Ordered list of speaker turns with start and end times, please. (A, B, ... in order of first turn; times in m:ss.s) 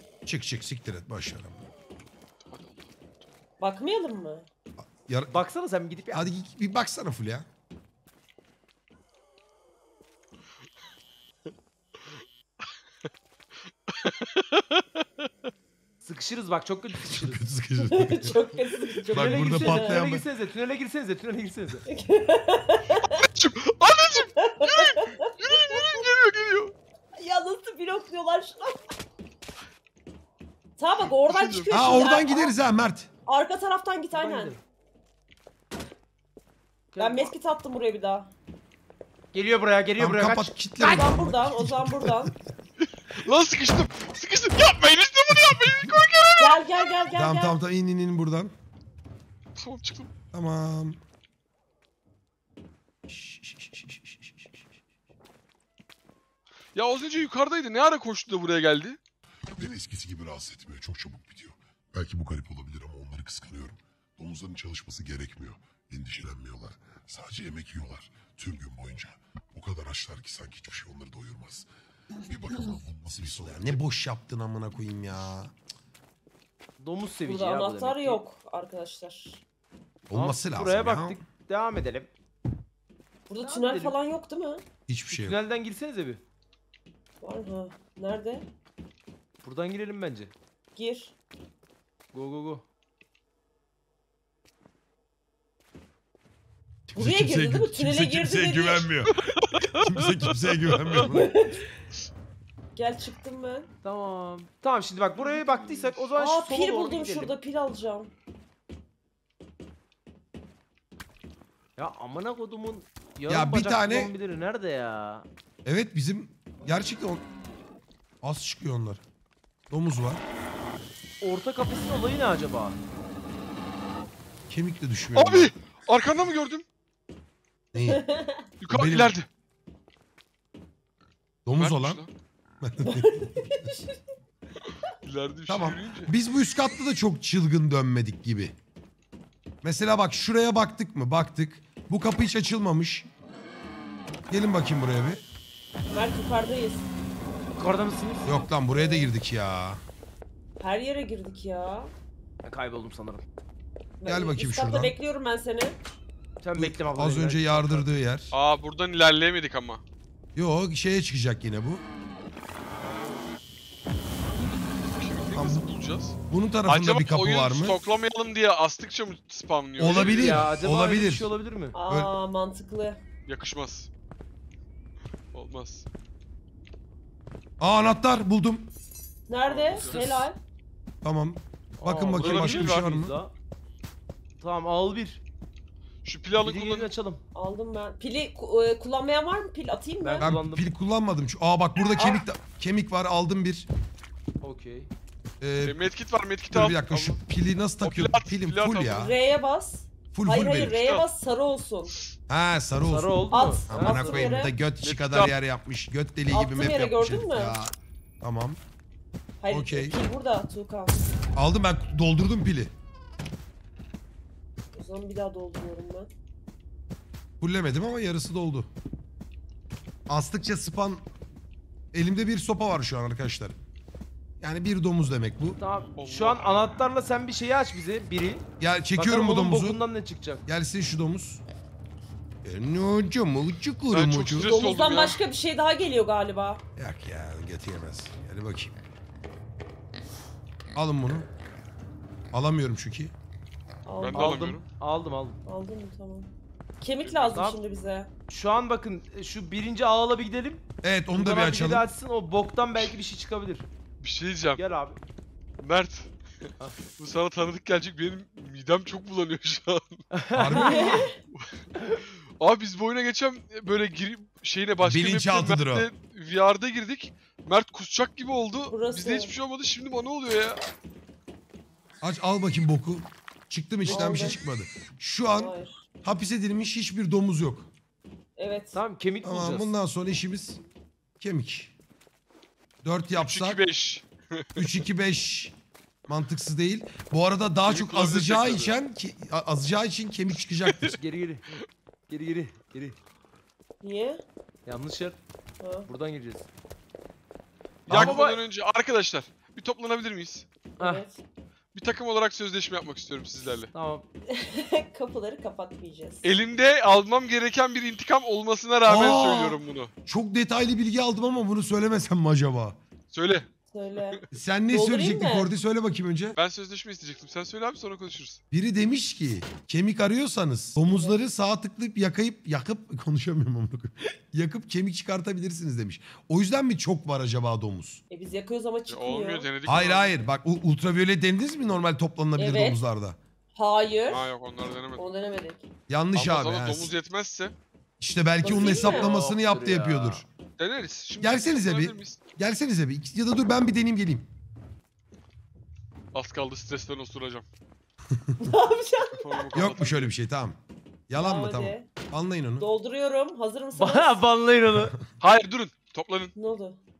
0:00.2-0:01.6 A
0:02.4-0:03.3 B
0:03.6-0:04.4 C
0:04.8-0:05.4 A
0:05.3-0:06.3 D
0:06.1-0:07.5 A
0:13.9-0:15.0 B
0:16.0-0:17.4 D
0:17.0-0:18.4 A
0:17.8-0:20.0 C
0:19.1-0:20.2 A
0:19.1-0:21.8 D
0:21.9-0:23.3 C
0:23.2-0:26.7 B
0:24.4-0:26.0 C
0:27.2-0:28.8 C
0:30.8-0:32.5 C
0:31.1-0:32.1 B
0:31.7-0:33.1 A
0:33.3-0:34.5 C
0:34.1-0:34.6 D
0:36.9-0:37.3 D
0:37.0-0:38.3 C
0:39.3-0:41.1 D
0:40.0-0:42.3 A
0:40.8-0:42.3 C
0:42.8-0:46.6 B
0:46.4-0:47.6 C
0:47.1-0:48.5 A
0:49.6-0:50.1 B
0:50.3-0:51.0 A
0:53.1-0:54.6 A
0:56.7-0:59.0 B
0:59.5-1:11.7 E
1:12.2-1:13.8 E
1:13.2-1:15.5 A
1:16.8-1:18.2 D
1:17.2-1:19.4 C
1:20.1-1:21.2 A
1:20.1-1:22.1 D
1:23.3-1:24.6 C
1:23.4-1:24.0 D
1:24.9-1:25.4 A
1:25.1-1:26.2 D
1:27.2-1:28.4 C
1:29.4-1:30.3 D
1:30.8-1:31.1 C
1:32.1-1:32.6 D
1:36.9-1:39.2 A
1:36.9-1:38.9 C
1:39.3-1:41.1 B
1:39.7-1:41.3 A
1:41.0-1:41.6 C
1:42.8-1:43.7 C
1:43.8-1:47.3 D
1:45.4-1:46.0 B
1:46.2-1:48.1 C
1:51.8-1:55.2 D
1:53.3-1:54.1 A
1:55.6-1:57.2 A
1:58.2-1:59.0 A
1:59.7-2:00.2 A
2:01.2-2:02.8 D
2:04.5-2:05.5 A
2:05.2-2:06.6 B
2:07.7-2:08.0 A
2:07.8-2:08.4 C
2:08.6-2:09.3 B
2:08.7-2:09.1 A
2:11.4-2:12.0 A
2:11.6-2:12.1 B
2:12.6-2:13.5 A
2:12.8-2:14.0 C
2:15.0-2:16.1 B
2:15.5-2:18.5 A
2:19.6-2:23.1 A
2:24.3-2:25.2 A
2:25.9-2:26.8 C
2:27.6-2:28.2 D
2:28.2-2:29.8 A
2:28.7-2:29.1 C
2:30.6-2:31.9 C
2:32.4-2:33.2 D
2:34.0-2:35.8 C
2:34.0-2:34.9 A
2:36.4-2:37.8 D
2:36.5-2:38.3 A
2:38.3-2:39.8 B
2:40.4-2:41.8 A
2:42.9-2:43.2 B
2:44.8-2:50.5 B
2:45.3-2:45.6 A
2:46.3-2:47.8 A
2:49.8-2:51.3 A
2:49.9-2:51.8 D
2:51.8-2:53.0 C
2:53.3-2:53.9 B
2:55.3-2:55.8 B
2:57.6-2:58.7 A
2:59.3-3:00.4 C
2:59.4-3:00.2 B
2:59.8-3:00.2 D
3:01.0-3:03.1 A
3:01.8-3:03.3 D
3:02.1-3:02.9 B
3:04.4-3:05.2 D
3:06.0-3:06.9 B
3:06.3-3:07.2 D
3:07.3-3:10.3 C
3:10.0-3:10.7 D
3:10.2-3:13.6 A
3:12.0-3:12.2 C
3:14.4-3:14.9 D
3:15.4-3:15.8 A
3:15.6-3:17.2 B
3:16.5-3:19.1 A
3:17.8-3:19.1 B
3:18.9-3:22.0 C
3:20.1-3:20.8 A
3:20.6-3:21.1 B
3:22.3-3:28.6 A
3:22.9-3:24.3 D
3:23.3-3:24.5 C
3:24.8-3:25.3 B
3:26.3-3:27.5 C
3:29.4-3:31.0 C
3:29.5-3:30.0 A
3:31.3-3:32.7 A
3:34.7-3:36.1 C
3:37.4-3:38.7 A
3:40.1-3:41.0 A
3:41.9-3:43.6 A
3:44.4-3:45.6 A
3:45.6-3:48.4 D
3:46.0-3:46.5 B
3:48.6-3:49.8 A
3:48.9-3:50.4 D
3:50.5-3:51.4 A
3:52.4-3:54.5 A
3:53.9-3:55.2 B
3:54.4-3:56.6 C
3:56.8-3:58.7 A
4:00.7-4:01.3 A
4:02.3-4:03.1 A
4:03.8-4:04.5 C
4:04.0-4:04.6 B
4:04.1-4:05.4 D
4:05.5-4:06.3 C
4:06.8-4:08.1 C
4:07.1-4:07.6 D
4:08.3-4:10.6 D
4:10.8-4:11.9 A
4:11.1-4:13.6 D
4:14.0-4:14.6 B
4:14.6-4:15.0 D
4:15.6-4:16.1 B
4:17.0-4:20.0 B
4:20.1-4:21.0 D
4:20.3-4:21.1 A
4:20.6-4:21.1 C
4:21.3-4:30.6 B
4:24.8-4:25.9 A
4:28.7-4:29.3 C
4:32.0-4:37.7 A
4:33.8-4:34.3 D
4:33.8-4:34.4 C
4:35.4-4:35.8 C
4:38.4-4:38.8 C
4:38.7-4:39.7 D
4:39.2-4:40.6 A
4:41.2-4:41.7 A
4:42.8-4:43.6 A
4:43.2-4:44.7 B
4:44.6-4:45.5 A
4:46.1-4:50.9 A
4:47.6-4:48.7 B
4:51.0-4:51.4 D
4:52.1-4:53.0 D
4:53.8-4:54.2 C
4:54.6-4:55.2 D
4:55.6-4:55.9 C
4:55.8-4:56.4 D
4:57.8-5:00.5 B
4:57.9-4:58.2 A
4:57.9-4:58.4 D
5:00.8-5:01.1 D
5:00.8-5:01.2 C
5:01.7-5:03.7 B
5:03.7-5:04.0 D
5:04.3-5:06.2 C
5:06.2-5:09.9 B
5:08.8-5:12.8 A
5:13.1-5:14.2 B
5:13.7-5:15.5 C
5:14.3-5:16.4 A
5:16.4-5:18.4 B
5:18.5-5:28.0 A
5:28.1-5:29.5 C
5:28.9-5:30.1 B
5:29.6-5:33.2 A
5:32.4-5:32.8 C
5:33.6-5:34.2 C
5:34.1-5:35.0 B
5:35.0-5:35.7 C
5:35.9-5:36.9 A
5:36.1-5:37.5 B
5:38.0-5:40.2 A
5:38.4-5:39.1 C
5:38.4-5:40.2 D
5:40.6-5:42.2 B
5:41.2-5:44.3 A
5:46.1-5:47.4 B
5:48.1-5:48.4 A
5:48.4-5:49.4 C
5:49.1-5:50.1 B
5:49.5-5:50.6 A
5:51.1-5:52.7 A
5:51.1-5:51.9 C
5:52.6-5:54.2 C
5:53.7-5:54.9 D
5:54.8-5:55.0 A
5:55.2-5:56.3 B
5:56.4-5:56.8 C